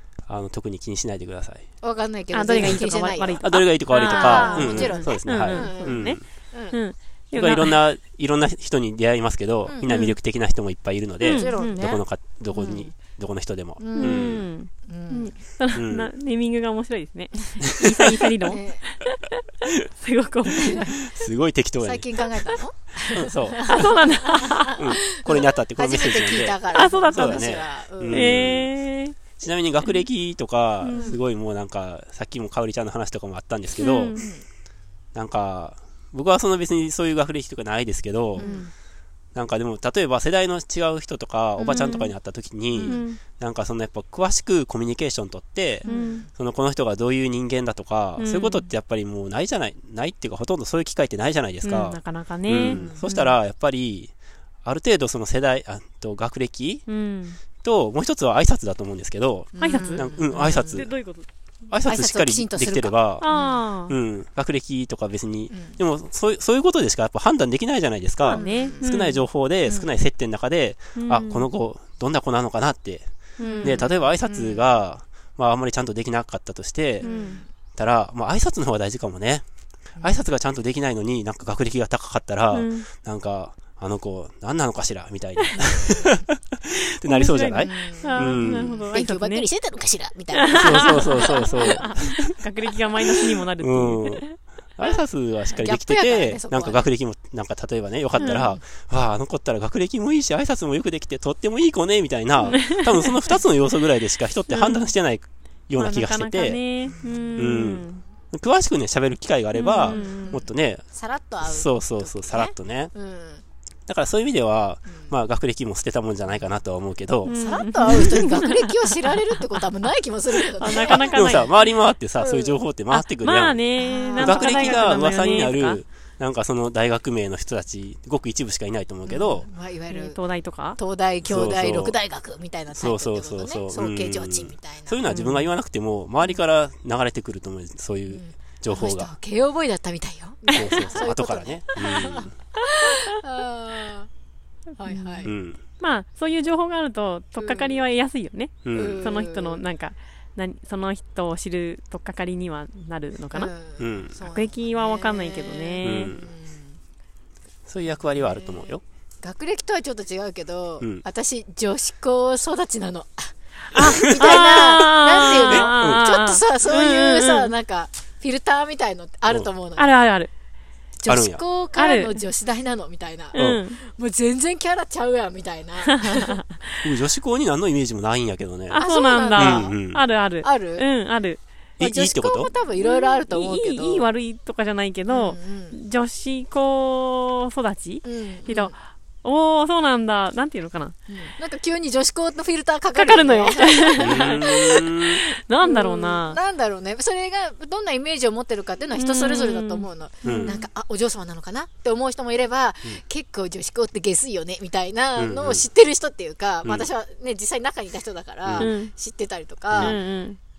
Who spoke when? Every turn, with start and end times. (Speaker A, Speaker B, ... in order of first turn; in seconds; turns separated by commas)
Speaker A: 0.3-1.7, Speaker B: 1.8-6.8, Speaker C: 2.3-7.8, Speaker A: 3.4-6.2, Speaker A: 7.3-14.4, Speaker B: 9.7-10.0, Speaker C: 9.9-10.2, Speaker C: 11.2-11.9, Speaker B: 11.2-12.0, Speaker C: 12.5-12.8, Speaker B: 13.8-15.3, Speaker C: 14.0-21.1, Speaker A: 15.7-16.1, Speaker A: 18.0-18.2, Speaker B: 18.4-18.9, Speaker B: 20.6-20.9, Speaker A: 21.0-22.0, Speaker B: 21.8-28.4, Speaker C: 22.3-22.6, Speaker A: 23.1-23.8, Speaker C: 23.7-24.9, Speaker A: 24.7-28.7, Speaker C: 26.7-29.2, Speaker A: 29.4-34.2, Speaker C: 30.8-31.2, Speaker B: 30.9-31.2, Speaker C: 33.8-34.3, Speaker B: 34.2-34.5, Speaker A: 35.1-38.6, Speaker C: 38.4-38.7, Speaker B: 38.4-38.7, Speaker A: 39.4-54.1, Speaker C: 41.6-42.1, Speaker B: 41.7-42.0, Speaker C: 42.8-43.2, Speaker C: 45.8-46.3, Speaker B: 45.9-46.3, Speaker C: 48.2-48.7, Speaker C: 51.6-53.4, Speaker B: 52.7-53.1, Speaker A: 54.6-56.9, Speaker C: 56.9-57.4, Speaker A: 57.6-60.9, Speaker B: 59.6-60.8, Speaker C: 59.6-61.3, Speaker A: 61.7-63.3, Speaker B: 61.8-63.7, Speaker C: 63.2-64.0, Speaker A: 63.9-73.1, Speaker B: 65.5-65.8, Speaker C: 68.2-69.2, Speaker B: 68.3-68.9, Speaker B: 69.7-69.9, Speaker C: 71.0-71.5, Speaker C: 73.4-73.9, Speaker B: 73.4-74.8, Speaker A: 73.6-77.1, Speaker C: 77.0-77.4, Speaker B: 77.0-77.5, Speaker A: 77.8-79.4, Speaker B: 80.0-80.3, Speaker A: 80.0-88.8, Speaker C: 82.5-82.9, Speaker B: 85.6-86.1, Speaker C: 87.0-89.5, Speaker B: 87.6-91.9, Speaker C: 90.3-94.3, Speaker A: 90.5-92.3, Speaker A: 93.2-106.6, Speaker B: 95.5-96.9, Speaker C: 98.2-98.5, Speaker B: 98.2-98.6, Speaker C: 102.5-103.4, Speaker C: 104.5-104.9, Speaker C: 105.8-108.0, Speaker B: 106.8-107.4, Speaker A: 107.4-110.8, Speaker C: 109.5-110.4, Speaker B: 109.8-113.4, Speaker A: 111.4-112.9, Speaker A: 113.9-117.3, Speaker B: 114.9-115.1, Speaker C: 117.3-119.6, Speaker B: 117.3-121.5, Speaker A: 117.9-118.2, Speaker C: 120.6-121.5, Speaker A: 120.7-123.6, Speaker B: 122.2-122.6, Speaker C: 122.9-125.8, Speaker B: 123.7-125.0, Speaker A: 124.2-129.5, Speaker B: 129.1-130.2, Speaker C: 129.9-130.8, Speaker B: 130.8-135.1, Speaker A: 131.2-131.9, Speaker A: 132.7-139.1, Speaker C: 135.1-135.5, Speaker B: 138.1-144.1, Speaker A: 140.5-142.3, Speaker B: 144.8-145.3, Speaker C: 144.8-153.5, Speaker A: 145.2-145.6, Speaker B: 147.4-147.8, Speaker A: 148.6-149.0, Speaker B: 148.7-149.7, Speaker B: 153.3-156.8, Speaker A: 153.8-154.2, Speaker C: 154.2-156.1, Speaker A: 155.8-156.3, Speaker A: 157.7-158.8, Speaker B: 158.2-169.9, Speaker C: 163.7-167.5, Speaker A: 163.7-166.1, Speaker C: 169.8-170.3, Speaker B: 171.0-176.4, Speaker A: 171.1-171.4, Speaker C: 171.7-172.2, Speaker C: 173.3-173.8, Speaker A: 173.4-173.6, Speaker C: 175.9-176.6, Speaker A: 176.8-178.8, Speaker C: 178.7-181.4, Speaker B: 178.7-179.8, Speaker A: 179.4-180.0, Speaker B: 180.4-180.9, Speaker A: 181.8-182.5, Speaker B: 181.8-184.1, Speaker C: 182.8-190.9, Speaker B: 185.1-185.8, Speaker B: 188.0-188.7, Speaker B: 191.1-210.0, Speaker C: 192.9-194.8, Speaker A: 194.0-195.2, Speaker C: 195.5-196.4, Speaker C: 199.0-200.6, Speaker A: 200.2-200.6, Speaker A: 205.2-205.6, Speaker A: 208.4-208.7, Speaker C: 208.6-208.9, Speaker C: 209.8-210.4